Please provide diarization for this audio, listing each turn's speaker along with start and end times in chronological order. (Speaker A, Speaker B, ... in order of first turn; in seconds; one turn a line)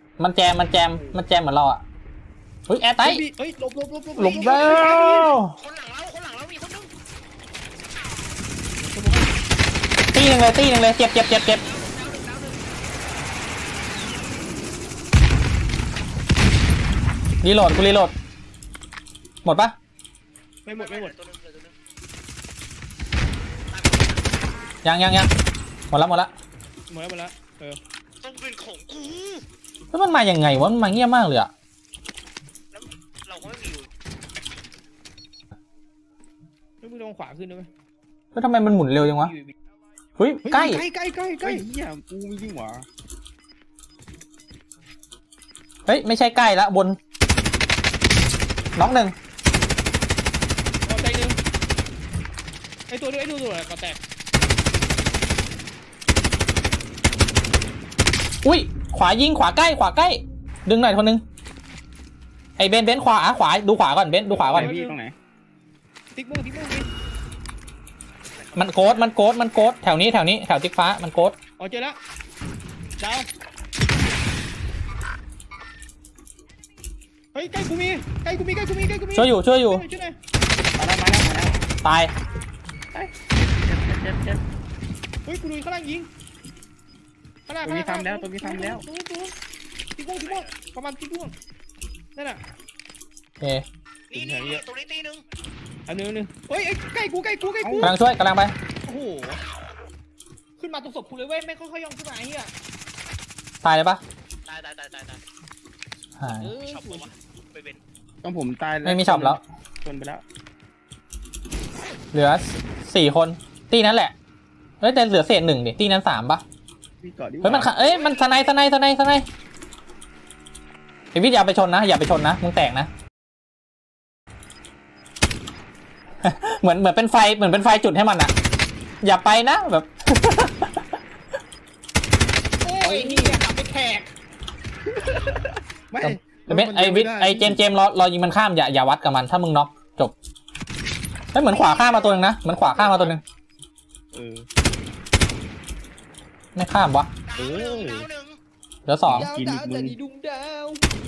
Speaker A: 0.2-1.8
Speaker A: 2.7-3.2
Speaker B: 3.0-5.3
Speaker A: 4.2-5.5
Speaker C: 4.7-6.9
Speaker B: 8.8-9.3
Speaker A: 10.1-11.6
Speaker C: 11.4-12.9
Speaker A: 17.4-18.1
Speaker A: 19.4-19.7
Speaker B: 20.6-21.1
Speaker C: 20.7-21.7
Speaker C: 23.7-24.3
Speaker A: 24.8-25.3
Speaker A: 25.9-26.3
Speaker B: 26.9-27.8
Speaker C: 28.2-29.4
Speaker A: 29.9-31.5
Speaker C: 32.7-33.9
Speaker B: 36.8-37.7
Speaker A: 38.3-39.3
Speaker B: 39.0-39.5
Speaker A: 40.2-40.8
Speaker B: 40.4-41.6
Speaker D: 41.3-42.9
Speaker A: 45.9-47.0
Speaker A: 48.8-49.1
Speaker B: 50.9-51.4
Speaker B: 52.9-54.0
Speaker A: 58.4-61.2
Speaker A: 62.6-64.7
Speaker D: 64.3-65.1
Speaker B: 64.5-65.0
Speaker B: 66.1-66.9
Speaker C: 68.4-69.0
Speaker A: 68.5-71.3
Speaker B: 71.6-72.0
Speaker B: 73.0-73.3
Speaker B: 77.3-80.1
Speaker A: 79.1-79.8
Speaker D: 80.7-81.6
Speaker A: 81.8-82.1
Speaker D: 82.9-84.4
Speaker B: 85.2-86.1
Speaker B: 87.5-89.3
Speaker D: 87.6-88.8
Speaker B: 90.0-91.3
Speaker C: 90.2-90.5
Speaker C: 94.1-95.2
Speaker B: 94.2-94.6
Speaker B: 95.9-97.9
Speaker D: 97.6-97.9
Speaker A: 97.8-98.5
Speaker B: 98.8-99.4
Speaker B: 100.6-102.5
Speaker A: 103.6-104.0
Speaker C: 104.5-105.2
Speaker A: 106.2-106.5
Speaker B: 106.4-107.1
Speaker C: 106.6-107.8
Speaker D: 108.2-110.2
Speaker A: 108.8-109.4
Speaker A: 112.1-114.1
Speaker A: 114.8-116.4
Speaker D: 117.0-117.7
Speaker A: 117.4-119.2
Speaker A: 121.1-122.9
Speaker A: 126.2-128.3
Speaker A: 129.0-130.9
Speaker B: 132.6-134.1
Speaker D: 132.8-133.4
Speaker D: 134.9-137.6
Speaker A: 136.0-140.1
Speaker A: 141.3-143.2
Speaker C: 141.7-142.0
Speaker D: 144.1-144.4
Speaker A: 146.5-147.1
Speaker C: 147.3-148.4
Speaker D: 147.4-148.1
Speaker A: 148.8-149.3
Speaker D: 149.1-149.9
Speaker B: 149.1-150.8